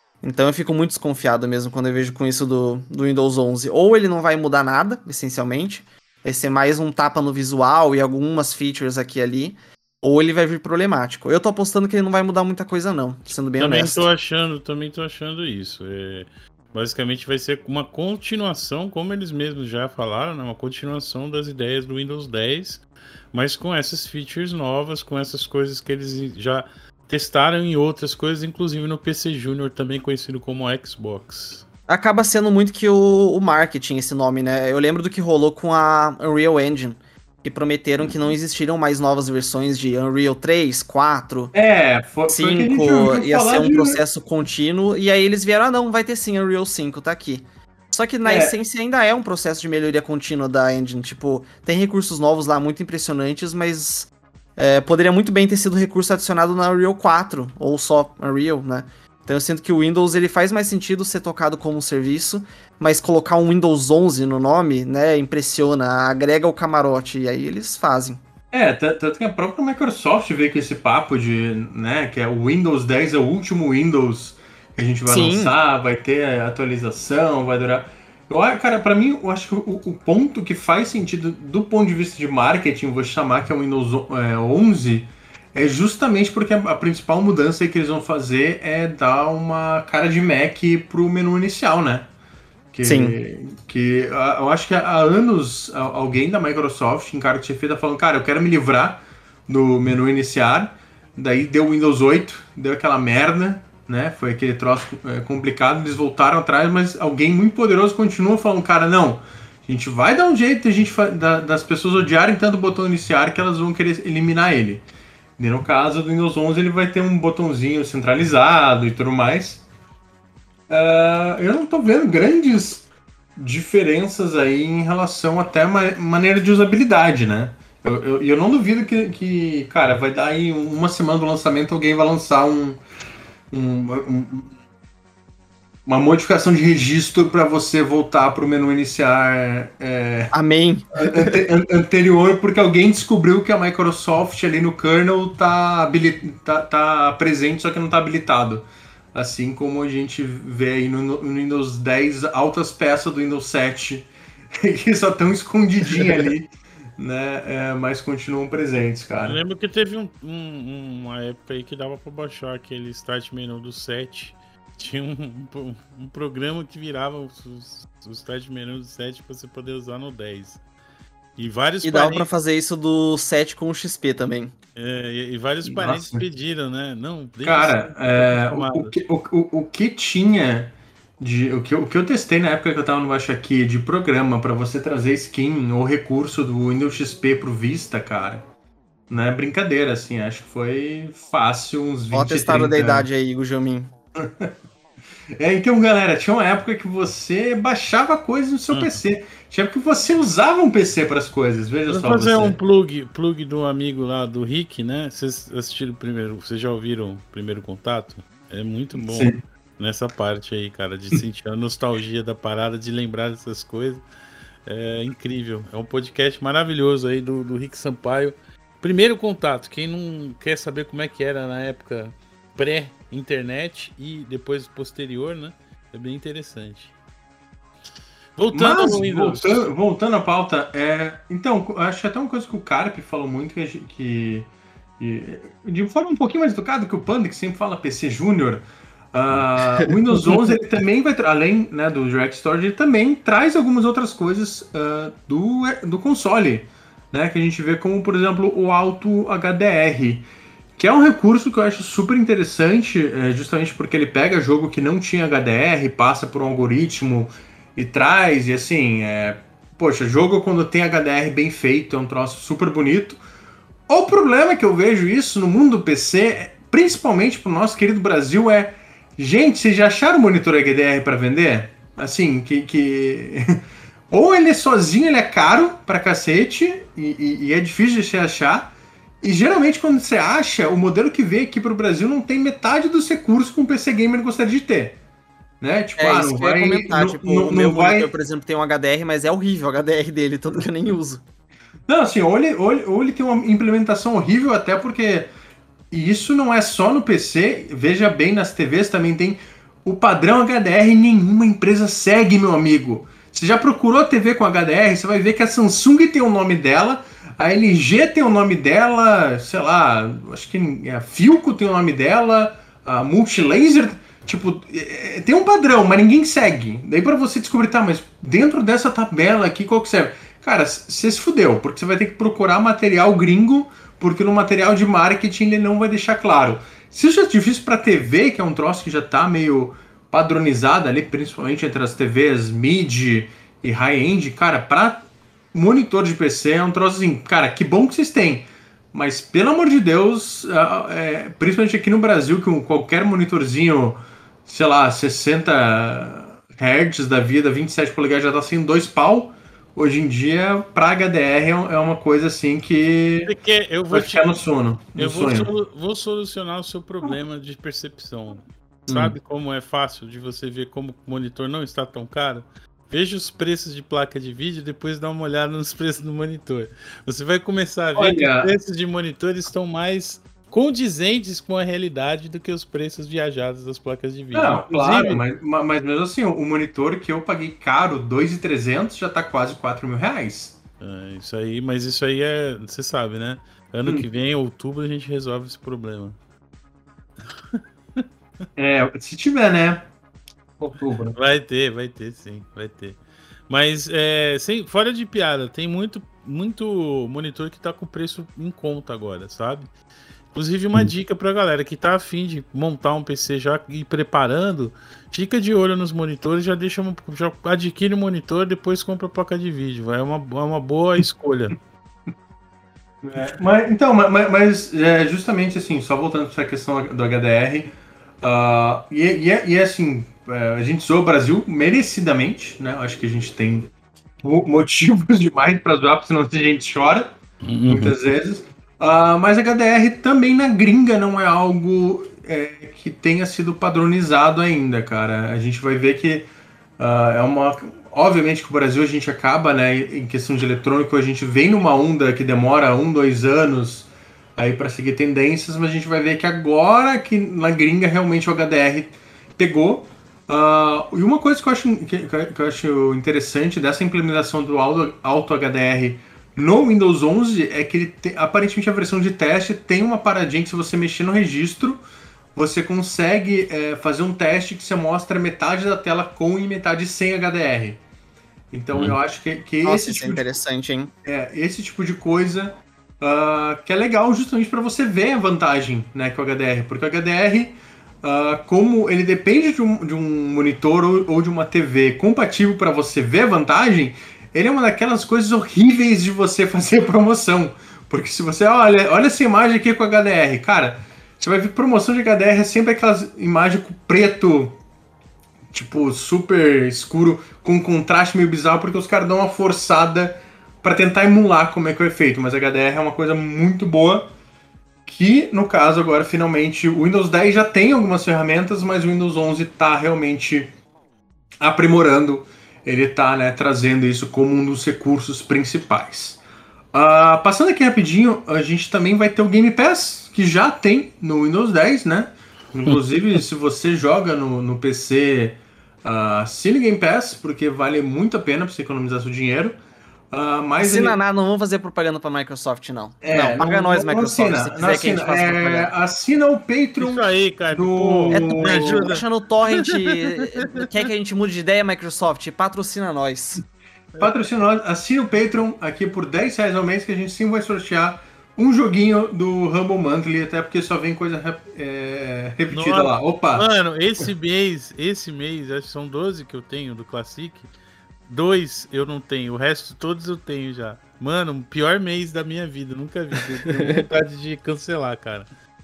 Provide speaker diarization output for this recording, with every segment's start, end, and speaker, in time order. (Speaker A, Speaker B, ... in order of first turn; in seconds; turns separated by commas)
Speaker A: 0.2-14.1, Speaker B: 13.6-31.7, Speaker A: 31.9-41.5, Speaker C: 41.5-44.0, Speaker A: 42.3-68.2, Speaker C: 48.2-48.5, Speaker C: 68.5-92.1, Speaker A: 75.1-75.5, Speaker C: 92.7-114.8, Speaker A: 92.8-93.2, Speaker C: 115.4-119.7, Speaker C: 120.7-132.8, Speaker C: 133.5-134.5, Speaker C: 135.9-140.3, Speaker A: 140.3-141.5, Speaker C: 140.9-154.1, Speaker C: 154.6-159.4, Speaker B: 159.2-170.6, Speaker B: 171.4-172.3, Speaker A: 171.8-174.5, Speaker B: 174.8-178.9, Speaker C: 175.7-176.2, Speaker C: 177.4-188.4, Speaker C: 189.1-193.1, Speaker A: 192.1-193.9, Speaker C: 194.2-194.5, Speaker C: 195.4-202.6, Speaker B: 198.7-199.0, Speaker B: 201.9-214.0, Speaker C: 209.0-209.4, Speaker B: 214.7-226.9, Speaker B: 228.4-229.7, Speaker C: 228.5-234.5, Speaker C: 235.0-250.3, Speaker C: 250.8-263.2, Speaker C: 263.9-273.6, Speaker C: 274.1-285.0, Speaker C: 285.6-288.1, Speaker A: 286.0-291.2, Speaker C: 291.9-295.3, Speaker C: 295.9-353.3, Speaker B: 353.2-354.3, Speaker C: 353.9-355.5, Speaker B: 355.0-375.2, Speaker C: 358.9-359.1, Speaker C: 368.0-368.5, Speaker C: 374.3-380.6, Speaker B: 380.8-386.2, Speaker B: 387.5-388.0, Speaker C: 388.6-389.9, Speaker C: 390.6-391.2, Speaker B: 391.1-399.7, Speaker B: 400.3-411.6, Speaker C: 413.0-417.7, Speaker C: 418.2-423.7, Speaker C: 424.2-427.1, Speaker B: 427.4-427.9, Speaker C: 427.7-436.3, Speaker C: 436.8-461.8, Speaker C: 462.4-467.8, Speaker C: 468.5-470.3, Speaker B: 468.7-469.0, Speaker A: 469.6-470.9, Speaker C: 471.1-494.6, Speaker C: 495.5-504.1, Speaker C: 504.9-510.5, Speaker C: 511.4-516.2, Speaker C: 516.7-529.6, Speaker C: 530.1-531.0, Speaker A: 530.6-535.7, Speaker C: 533.0-539.0, Speaker B: 536.8-540.6, Speaker A: 538.1-543.4, Speaker C: 544.0-553.5, Speaker B: 552.5-557.5, Speaker B: 558.1-565.3, Speaker A: 563.5-563.8